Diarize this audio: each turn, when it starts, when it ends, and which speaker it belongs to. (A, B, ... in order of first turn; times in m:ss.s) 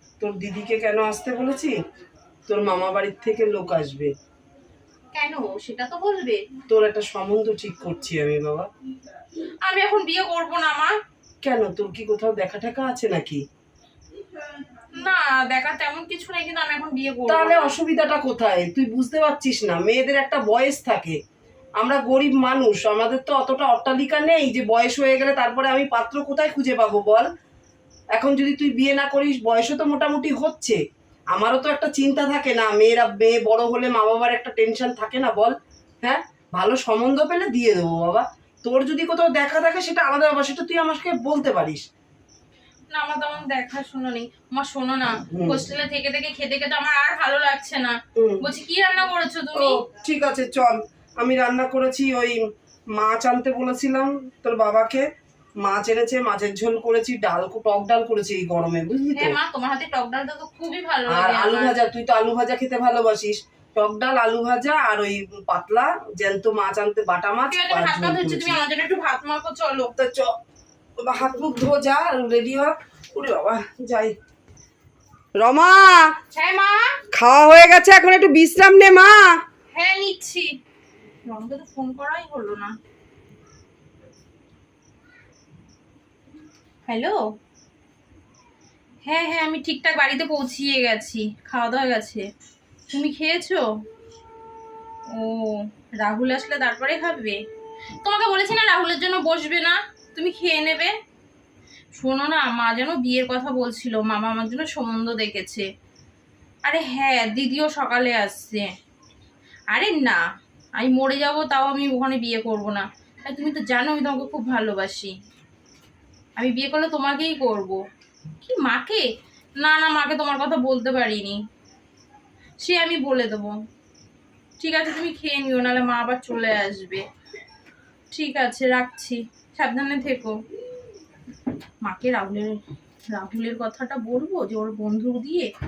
0:00.2-0:01.8 A
0:02.5-0:04.1 A
0:05.1-0:06.4 B
0:06.7-0:08.7 A
0:09.6-0:11.0 B
0:11.4-0:13.4 A
0:14.9-0:17.6 B
0:17.3-0:21.2 A
0:21.8-0:27.3 A
0:28.2-0:30.8 A
0:31.3-0:41.8 A
0:42.9-0:49.8 B
0:45.3-0:45.6 A
0:48.2-0:48.4 A
0:49.6-0:52.4 A
0:53.0-0:55.1 A
0:55.6-0:59.4 A
0:59.2-1:01.7 B
1:01.1-1:08.6 A
1:07.5-1:09.9 B
1:10.0-1:10.4 A
1:11.0-1:14.2 A
1:15.4-1:16.1 A
1:16.3-1:17.0 B
1:17.1-1:19.4 A
1:19.7-1:20.5 B
1:21.3-1:22.7 B
1:26.9-1:27.2 B
1:29.0-1:32.2 B
1:32.9-1:33.6 B
1:35.1-1:37.4 B
1:38.0-1:40.9 B
1:42.0-1:45.7 B
1:46.6-1:48.7 B
1:49.7-1:50.2 B
1:50.8-1:55.1 B
1:56.4-1:57.8 B
1:58.4-1:59.0 B
1:59.6-2:01.4 B
2:02.6-2:03.5 B
2:04.6-2:07.0 B
2:08.1-2:10.4 B
2:11.8-2:12.6 B
2:13.1-2:15.5 B